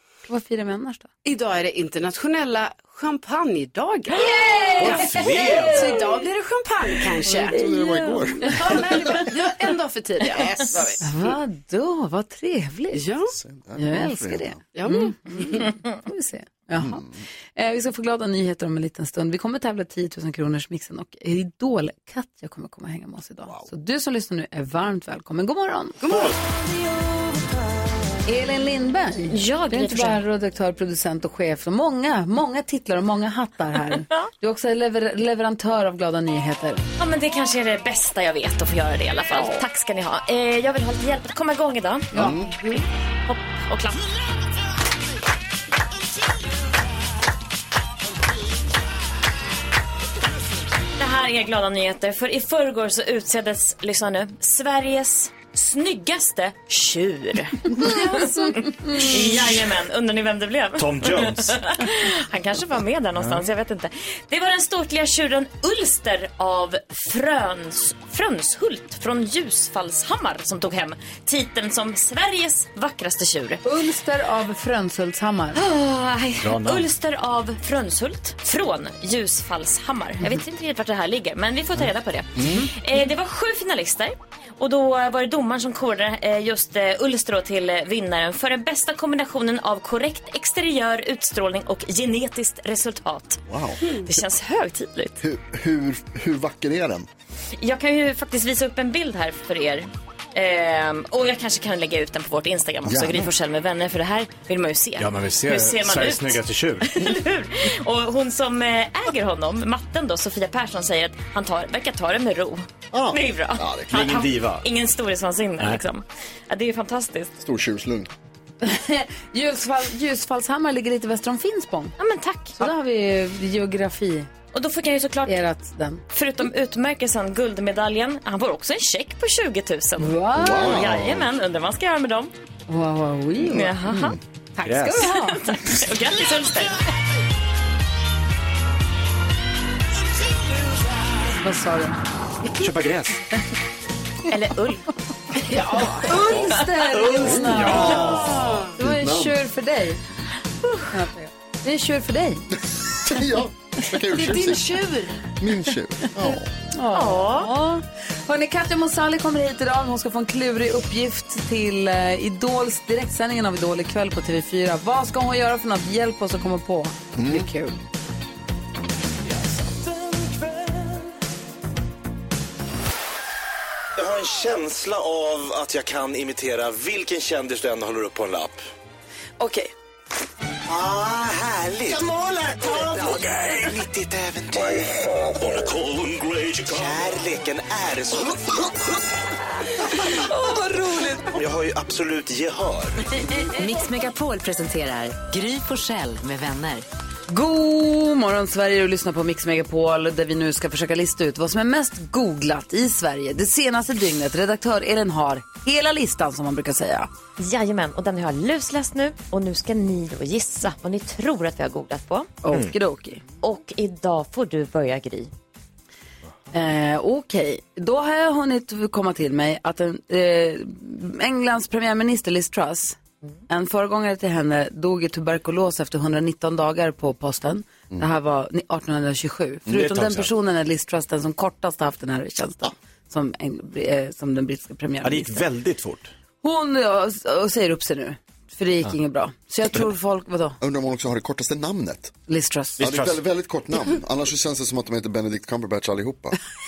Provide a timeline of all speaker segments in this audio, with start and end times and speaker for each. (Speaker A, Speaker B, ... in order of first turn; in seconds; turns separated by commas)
Speaker A: 0.3-1.1, Speaker B: 1.2-7.6, Speaker A: 4.1-6.0, Speaker C: 4.8-6.0, Speaker A: 7.3-9.2, Speaker D: 7.5-9.3, Speaker B: 8.5-11.1, Speaker A: 11.0-13.0, Speaker B: 12.9-13.3, Speaker D: 13.3-14.6, Speaker A: 13.8-26.0, Speaker B: 14.7-15.7, Speaker D: 16.8-17.2, Speaker B: 26.0-26.4, Speaker C: 26.1-26.4, Speaker A: 28.2-36.8, Speaker E: 29.3-30.2, Speaker E: 37.0-44.1, Speaker D: 42.1-42.5, Speaker E: 51.0-73.6, Speaker A: 58.1-58.5, Speaker C: 60.8-61.6, Speaker C: 63.2-63.5, Speaker A: 73.6-75.6, Speaker E: 75.5-95.2, Speaker C: 76.4-76.9, Speaker D: 93.5-93.8, Speaker D: 95.2-97.1, Speaker E: 97.6-117.3, Speaker D: 102.8-103.3, Speaker C: 105.0-107.0, Speaker D: 112.9-114.0, Speaker C: 113.9-114.6, Speaker D: 117.4-118.1, Speaker A: 118.6-122.0, Speaker E: 122.0-122.6, Speaker A: 122.6-124.3, Speaker E: 124.5-125.3, Speaker A: 125.2-126.0, Speaker E: 126.1-132.3, Speaker A: 130.0-130.7, Speaker D: 130.3-131.3, Speaker A: 132.7-133.7, Speaker E: 133.4-134.2, Speaker D: 133.9-134.2, Speaker A: 134.6-135.4, Speaker C: 134.6-135.2, Speaker E: 135.2-136.8, Speaker A: 141.3-142.0, Speaker C: 142.5-143.2, Speaker E: 144.3-144.8, Speaker B: 145.4-146.2, Speaker A: 145.8-150.0, Speaker C: 146.8-148.5, Speaker B: 148.0-148.7, Speaker D: 148.8-149.3, Speaker E: 150.6-150.9, Speaker A: 150.9-152.5, Speaker D: 153.0-154.7, Speaker B: 154.2-154.6, Speaker A: 154.5-155.0, Speaker D: 155.4-156.5, Speaker A: 156.3-167.8, Speaker E: 156.9-157.5, Speaker D: 167.1-167.5, Speaker C: 170.0-170.9, Speaker C: 173.9-178.6, Speaker A: 179.4-179.7, Speaker C: 180.7-188.8, Speaker A: 190.3-191.2, Speaker C: 191.3-193.0, Speaker F: 193.4-196.8, Speaker A: 197.3-207.1, Speaker E: 207.4-212.3, Speaker A: 212.4-213.2, Speaker E: 213.4-215.3, Speaker A: 216.5-223.0, Speaker A: 223.5-235.4, Speaker C: 229.7-230.3, Speaker C: 235.0-236.1, Speaker A: 236.4-240.6, Speaker D: 240.6-242.1, Speaker A: 242.3-242.8, Speaker C: 242.8-243.2, Speaker D: 242.8-246.4